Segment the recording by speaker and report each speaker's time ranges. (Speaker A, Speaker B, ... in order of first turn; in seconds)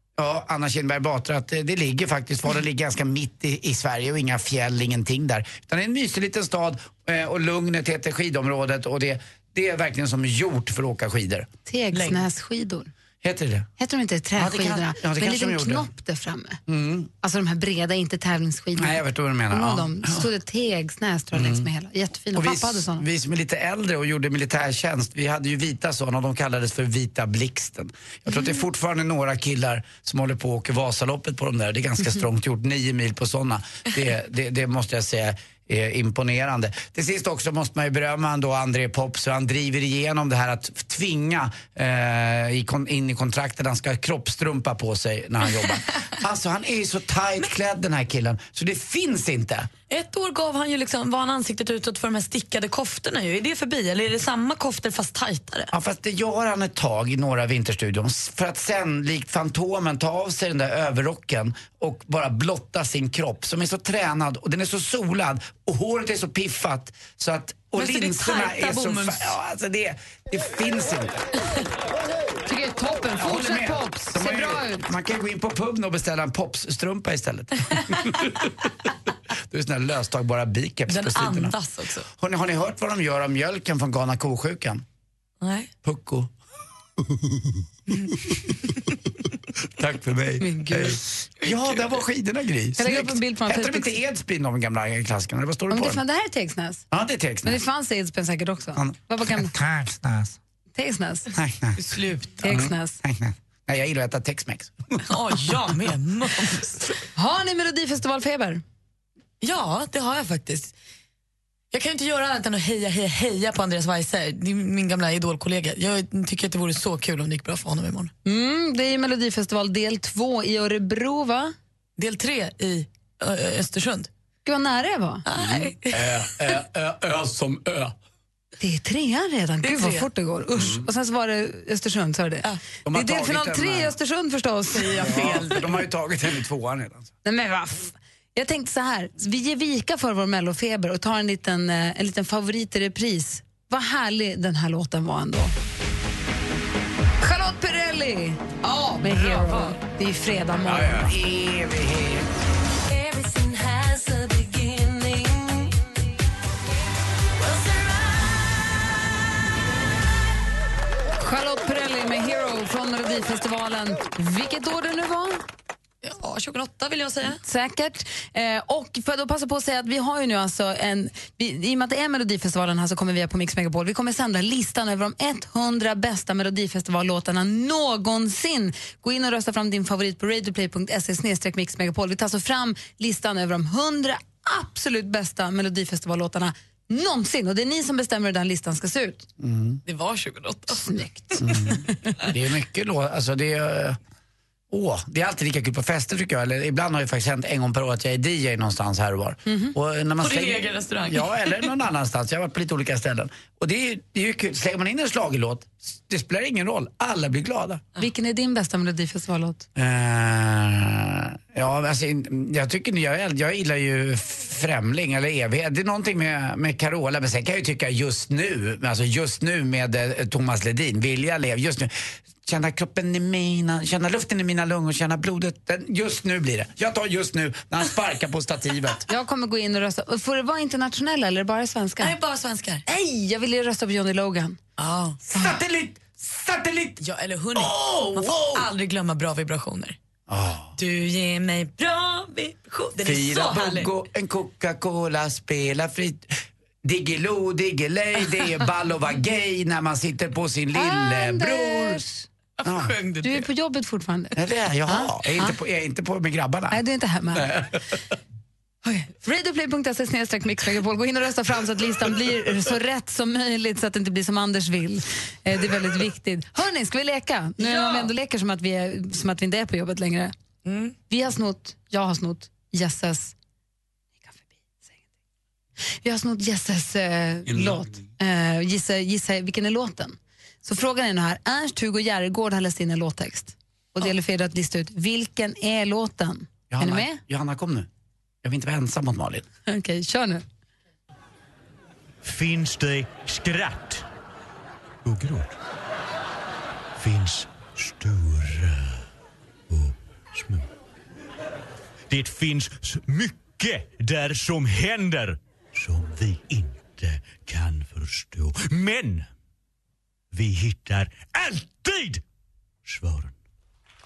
Speaker A: 0.2-11.5, 13.2-13.7, 14.4-15.9, 16.7-17.1, 18.8-20.3, 21.3-21.7, 22.4-49.7, 55.7-71.2, 73.2-78.7, 79.5-81.6, 82.2-84.8, 85.8-86.3, 89.8-96.0, 96.9-97.6, 98.8-100.3, 101.3-101.8, 102.4-105.0, 125.4-127.9, 130.6-130.9, 132.8-133.9, 134.9-137.1, 150.6-152.4, 189.4-189.8, 191.4-194.0, 194.7-207.8, 209.8-221.9, 222.4-229.1, 235.3-237.0, 237.6-238.7, 240.3-240.8, 243.0-252.1, 252.6-252.9, 254.3-256.8, 257.3-257.9, 277.5-277.9, 286.7-287.9, 288.4-289.4
Speaker B: 11.7-12.9, 13.8-16.6, 17.2-19.0, 19.5-23.1, 72.5-74.8, 90.4-91.0, 92.8-94.0, 95.7-96.8, 97.4-99.5, 100.8-101.3, 102.4-103.0, 107.2-108.6, 118.2-121.5, 124.5-125.2, 128.6-135.4, 137.2-145.6, 147.2-151.1, 161.2-165.4, 167.4-189.3, 190.7-191.8, 199.5-199.7, 208.0-209.7, 229.1-232.1, 232.9-234.6, 250.7-252.3, 253.2-254.3, 254.9-255.6, 256.7-257.5, 258.9-270.3, 271.1-273.3, 274.2-275.0, 276.0-287.2, 289.7-290.4
Speaker C: 11.9-12.2, 49.9-55.7, 67.8-69.4, 80.9-82.1, 85.4-85.7, 91.4-92.0, 101.8-102.4, 105.1-106.8, 109.4-110.7, 111.7-118.1, 122.0-124.1, 125.3-126.3, 129.6-130.1, 134.8-135.7, 149.1-149.8, 166.0-167.4, 189.9-190.9, 200.2-201.7, 232.0-232.8, 234.8-235.2, 237.0-240.0, 240.8-243.9, 252.6-253.5, 267.6-268.1, 270.6-270.9
Speaker D: 152.9-155.7, 157.4-158.4
Speaker E: 292.2-294.1, 295.1-295.6, 297.0-299.0, 299.7-300.7, 302.1-309.3, 310.3-312.2, 312.9-313.4